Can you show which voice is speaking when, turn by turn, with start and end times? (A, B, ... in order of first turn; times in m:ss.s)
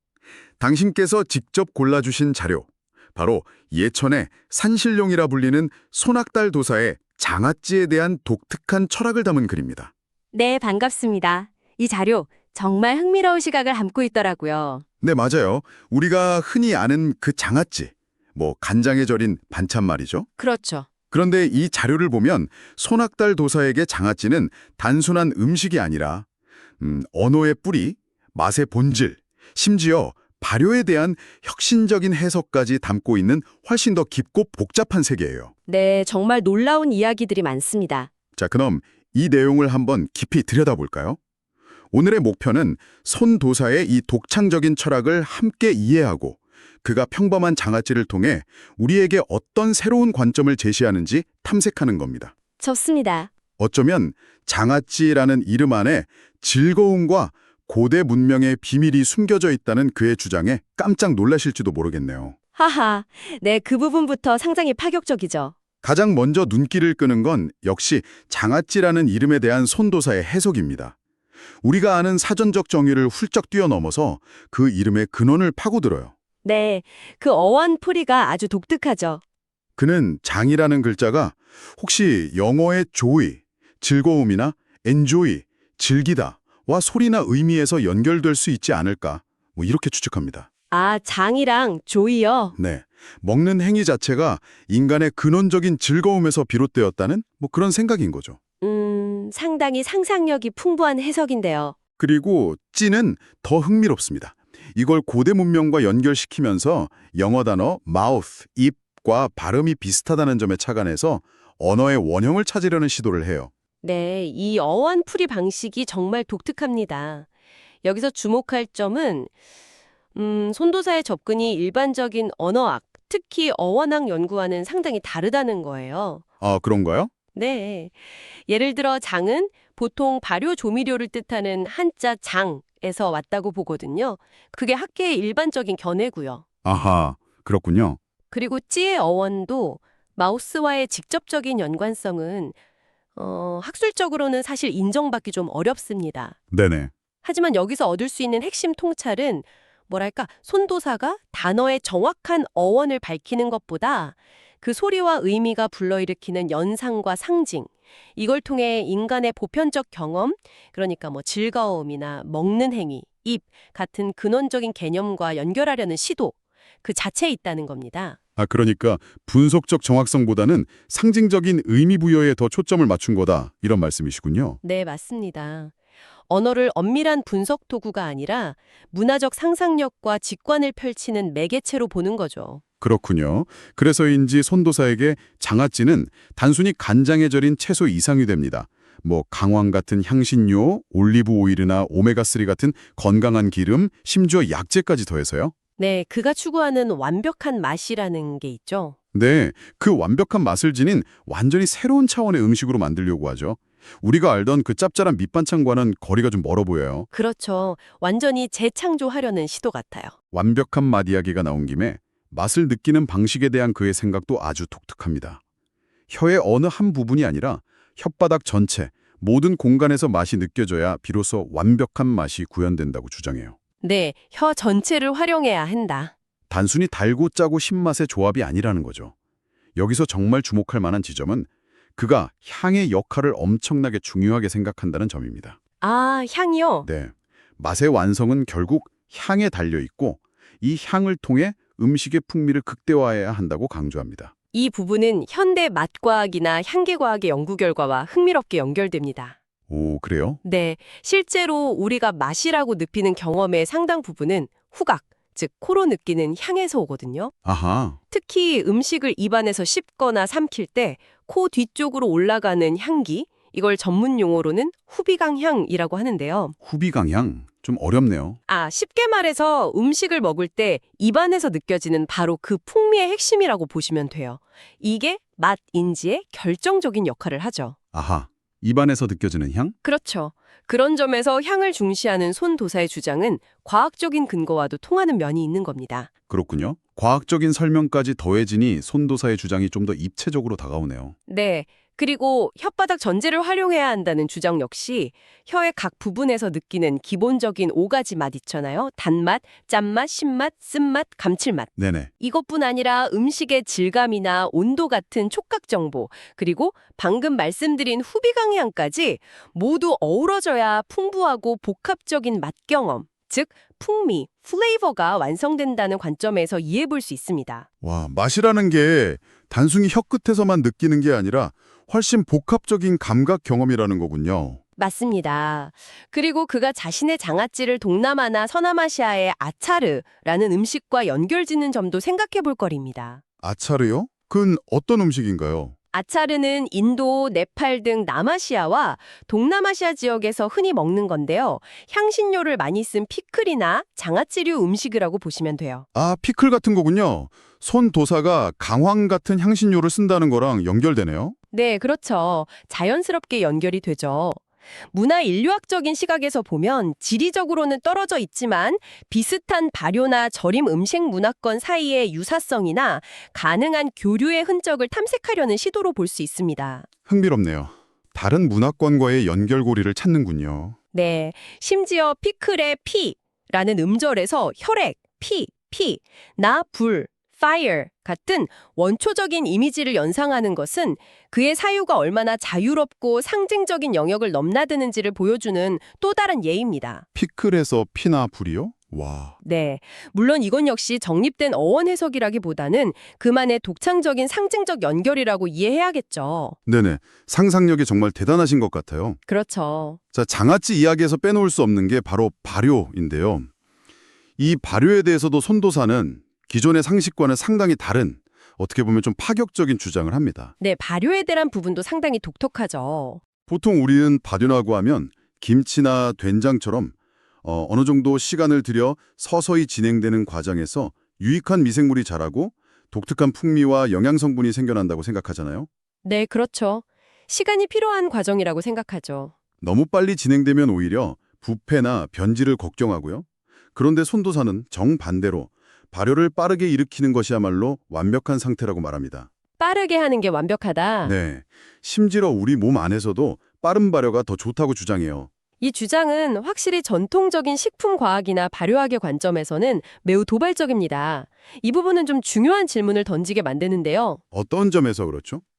0:00.6-0:09.9 A
0:10.3-0:14.8 B
0:15.0-0:20.3 A
0:20.4-0:20.9 B
0:21.1-0:26.2 A
0:26.8-0:35.5 A
0:35.7-0:38.1 B
0:38.4-0:41.2 A
0:41.9-0:52.3 A
0:52.6-0:53.3 B
0:53.6-1:02.3 A
1:02.6-1:05.5 B
1:05.8-1:10.9 A
1:11.6-1:16.1 A
1:16.4-1:19.2 B
1:19.8-1:30.5 A
1:30.7-1:32.6 B
1:32.6-1:38.4 A
1:38.6-1:41.7 B
1:42.0-1:53.5 A
1:53.8-1:57.3 B
1:57.8-1:59.3 B
2:00.1-2:06.2 B
2:06.4-2:07.1 A
2:07.3-2:16.4 B
2:16.6-2:18.0 A
2:18.3-2:22.5 B
2:23.2-2:26.3 B
2:26.5-2:26.9 A
2:27.2-2:48.2 B
2:48.4-2:54.6 A
2:54.6-2:55.7 B
2:56.3-3:02.6 B
3:02.8-3:15.5 A
3:15.8-3:18.9 B
3:19.1-3:27.1 A
3:27.1-3:30.1 B
3:30.3-3:35.4 A
3:36.1-3:43.6 A
3:43.8-3:46.1 B
3:46.5-3:49.1 A
3:49.8-3:55.6 A
3:55.8-3:56.8 B
3:56.8-4:04.3 A
4:04.5-4:09.4 B
4:09.7-4:10.4 A
4:10.4-4:17.3 B
4:17.4-4:18.0 A
4:18.1-4:26.5 B
4:26.6-4:28.4 A
4:28.5-4:37.8 B
4:37.9-4:39.7 A
4:39.8-4:46.1 B
4:46.3-4:51.1 A
4:51.3-5:17.7 B
5:01.8-5:02.1 A
5:17.8-5:24.6 A
5:24.8-5:33.2 B
5:33.4-5:35.7 A
5:35.9-5:45.8 B
5:45.9-5:51.3 A
5:51.5-5:54.4 B
5:54.9-6:06.9 B
6:07.1-6:10.8 A
6:10.9-6:27.0 B
6:27.1-6:29.3 A
6:29.4-6:36.6 B
6:36.6-6:39.2 A
6:39.3-6:40.0 B
6:40.1-6:43.5 A
6:44.4-6:50.5 A
6:50.6-6:53.2 B
6:53.5-7:05.7 A
7:06.0-7:09.3 B
7:09.6-7:19.3 A
7:19.6-7:21.1 B
7:21.0-7:25.3 A
7:25.6-7:34.2 B
7:34.3-7:35.4 A